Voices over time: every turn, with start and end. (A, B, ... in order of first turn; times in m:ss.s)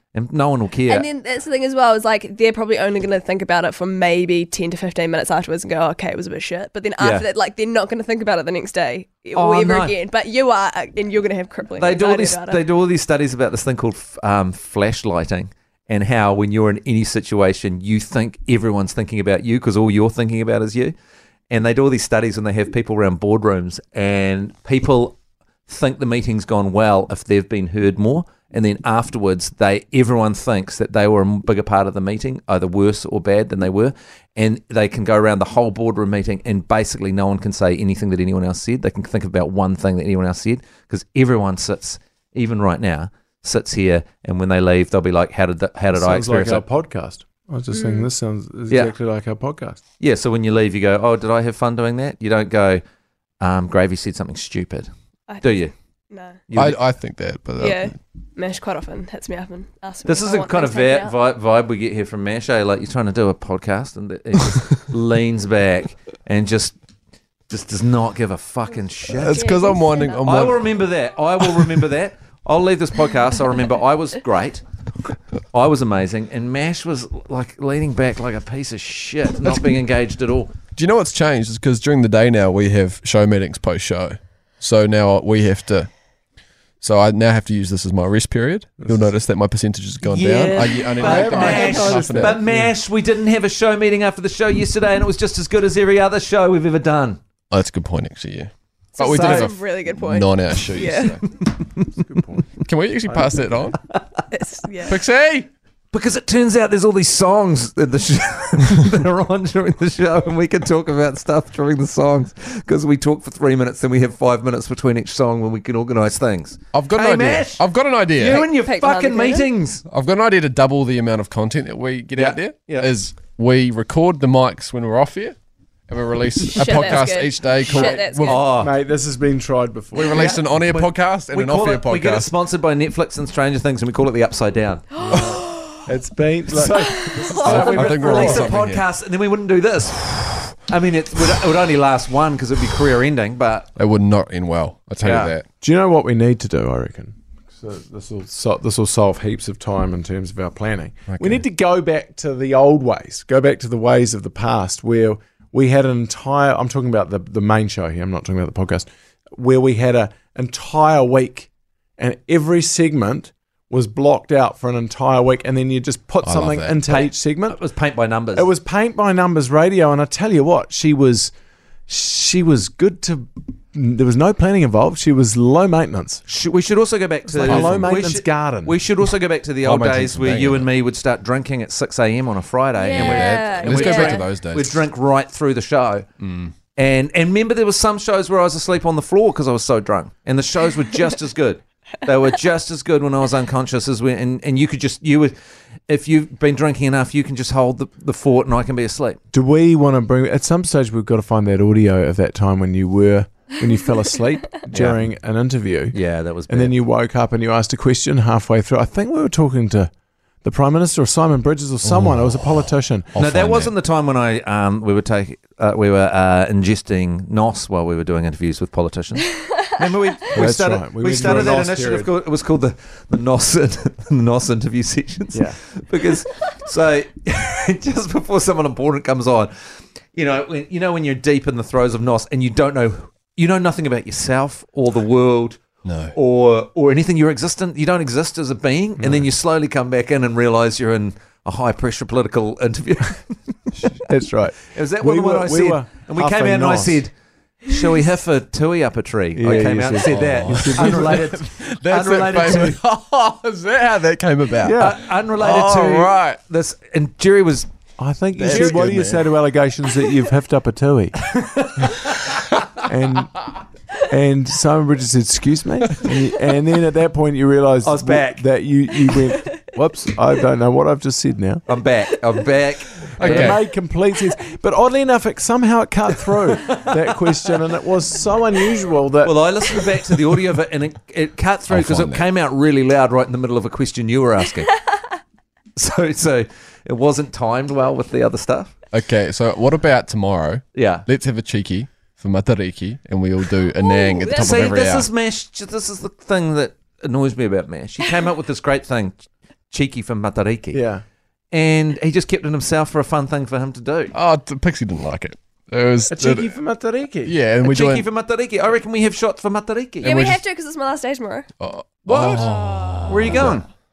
0:00.1-0:01.1 A
0:00.9-0:12.6 B
0:07.0-0:07.3 A
0:09.4-0:10.0 A
0:11.8-0:20.9 A
0:21.5-0:25.2 A
0:25.7-0:46.6 A
0:45.9-0:49.8 C
0:47.7-0:48.1 B
0:50.0-0:52.8 A
0:53.4-0:54.9 A
0:55.3-0:55.6 B
0:55.4-0:55.7 A
0:56.1-0:56.4 B
0:56.5-0:56.8 A
0:56.6-0:57.9 D
0:57.6-1:01.2 B
1:00.1-1:06.8 A
1:07.5-1:09.5 A
1:09.1-1:10.7 D
1:09.1-1:10.5 B
1:10.2-1:14.6 A
1:15.5-1:20.5 A
1:20.8-1:25.9 D
1:26.8-1:32.4 D
1:28.8-1:29.1 C
1:30.0-1:37.2 A
1:31.0-1:32.7 C
1:37.5-1:41.2 D
1:39.0-1:41.2 B
1:39.1-1:39.5 A
1:41.9-1:42.5 C
1:42.6-1:43.8 D
1:43.1-1:43.5 C
1:44.3-1:45.0 B
1:44.9-1:45.5 D
1:45.9-1:57.6 A
1:56.7-1:58.5 D
1:58.2-1:59.8 A
1:58.4-1:59.5 B
1:59.9-2:05.4 D
2:02.2-2:02.9 A
2:05.9-2:08.4 D
2:06.5-2:08.5 B
2:07.7-2:08.7 A
2:08.6-2:10.3 C
2:09.9-2:12.3 D
2:10.1-2:14.9 A
2:15.0-2:15.8 B
2:15.0-2:18.6 C
2:16.6-2:18.4 B
2:17.3-2:23.7 A
2:17.4-2:18.8 D
2:23.8-2:25.4 D
2:25.0-2:25.3 A
2:25.6-2:47.6 C
2:31.1-2:31.4 D
2:46.2-2:46.8 D
2:46.9-2:48.5 A
2:48.3-2:51.3 C
2:51.9-2:56.2 C
2:56.3-3:06.1 A
2:57.3-2:58.8 C
2:57.4-2:57.8 D
2:59.6-3:00.7 D
3:02.8-3:04.3 B
3:02.9-3:04.8 D
3:06.2-3:06.5 D
3:06.8-3:15.3 A
3:15.9-3:19.2 A
3:19.3-3:26.0 C
3:24.7-3:25.0 A
3:25.9-3:26.7 A
3:26.5-3:29.9 C
3:30.4-3:33.1 C
3:31.8-3:33.7 D
3:33.2-3:49.5 A
3:40.3-3:42.1 C
3:45.3-3:45.6 C
3:50.1-4:03.4 A
3:55.8-3:56.2 D
3:59.0-3:59.3 C
4:03.8-4:07.0 C
4:04.7-4:07.1 A
4:07.6-4:12.8 A
4:09.4-4:11.4 C
4:10.1-4:16.4 D
4:14.6-4:15.0 C
4:14.8-4:17.7 A
4:18.0-4:21.2 C
4:18.4-4:19.3 D
4:18.5-4:18.9 A
4:21.2-4:22.7 A
4:22.8-4:23.4 C
4:24.1-4:31.6 C
4:27.8-4:28.4 A
4:31.7-4:33.6 A
4:33.2-4:33.6 D
4:33.2-4:39.4 C
4:36.5-4:37.6 A
4:39.2-4:44.7 A
4:41.7-4:42.3 D
4:45.8-4:48.7 A
4:48.9-4:55.1 D
4:50.8-4:51.1 A
4:53.8-4:54.8 B
4:54.3-5:00.8 A
5:00.7-5:01.0 C
5:01.5-5:04.1 A
5:04.1-5:06.5 D
5:06.1-5:07.3 C
5:07.2-5:08.1 D
5:07.6-5:10.2 A
5:10.0-5:10.4 D
5:10.0-5:11.5 B
5:11.6-5:13.6 D
5:12.1-5:12.5 A
5:12.2-5:13.6 B
5:13.0-5:13.7 A